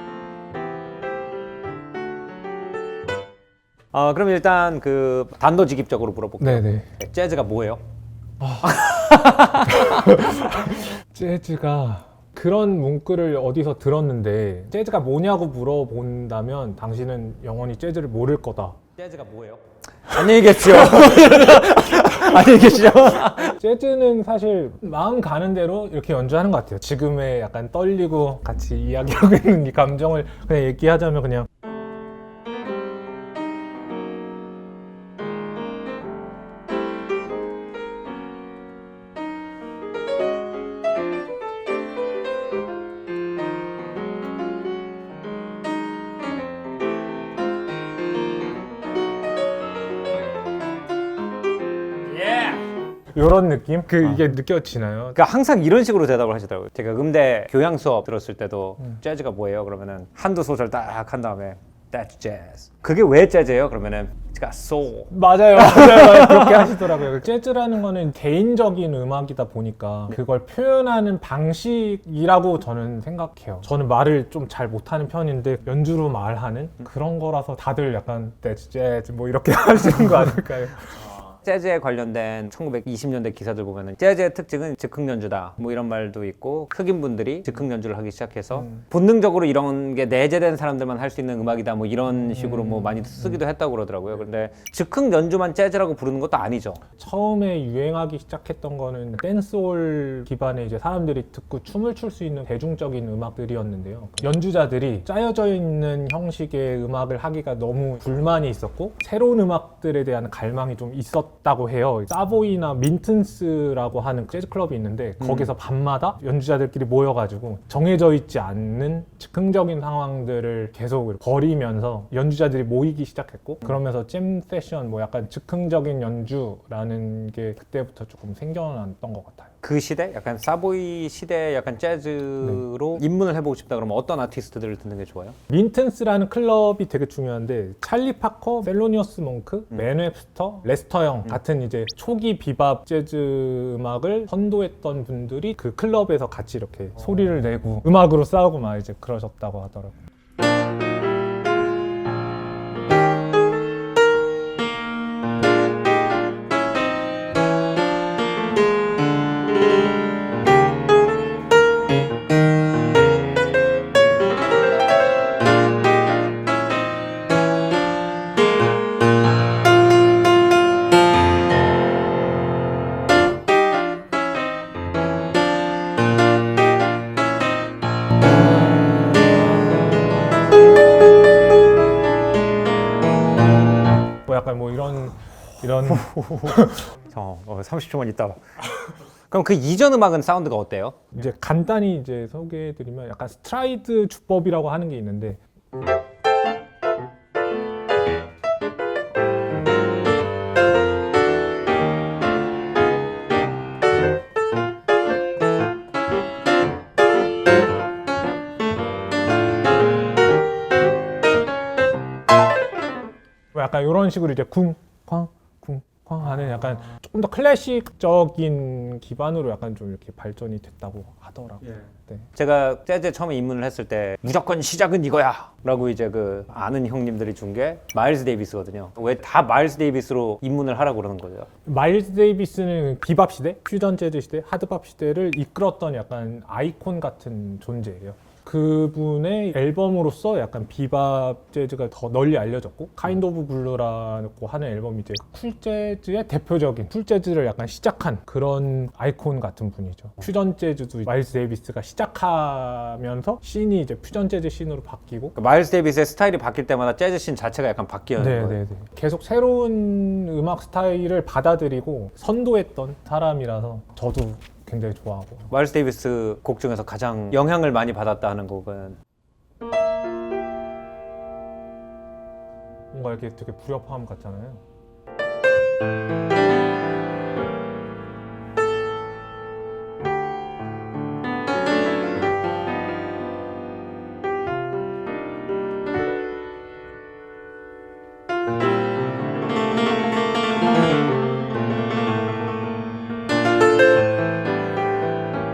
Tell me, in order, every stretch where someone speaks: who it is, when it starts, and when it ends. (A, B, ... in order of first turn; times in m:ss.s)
0:03.9-0:07.8 A
0:06.4-0:06.9 B
0:08.4-0:18.8 B
0:08.6-0:10.1 A
0:19.0-0:23.6 A
0:23.6-0:31.5 B
0:52.2-0:52.6 A
0:53.1-0:55.2 B
0:55.2-1:06.9 A
1:05.1-1:21.0 B
1:21.4-1:36.8 A
1:28.5-1:28.8 B
1:32.3-1:33.4 B
1:37.0-2:09.5 B
1:55.2-1:55.5 A
2:09.6-2:15.4 A
2:15.5-2:30.0 B
3:04.3-3:06.8 B
3:05.8-3:08.4 A
3:09.3-3:11.2 A
3:11.2-3:15.4 B
3:33.5-3:42.3 B
3:42.4-3:51.5 A
3:51.7-4:15.4 B
4:15.4-4:18.6 A
4:18.2-4:25.5 B
4:25.5-4:29.0 A
4:32.9-4:34.6 B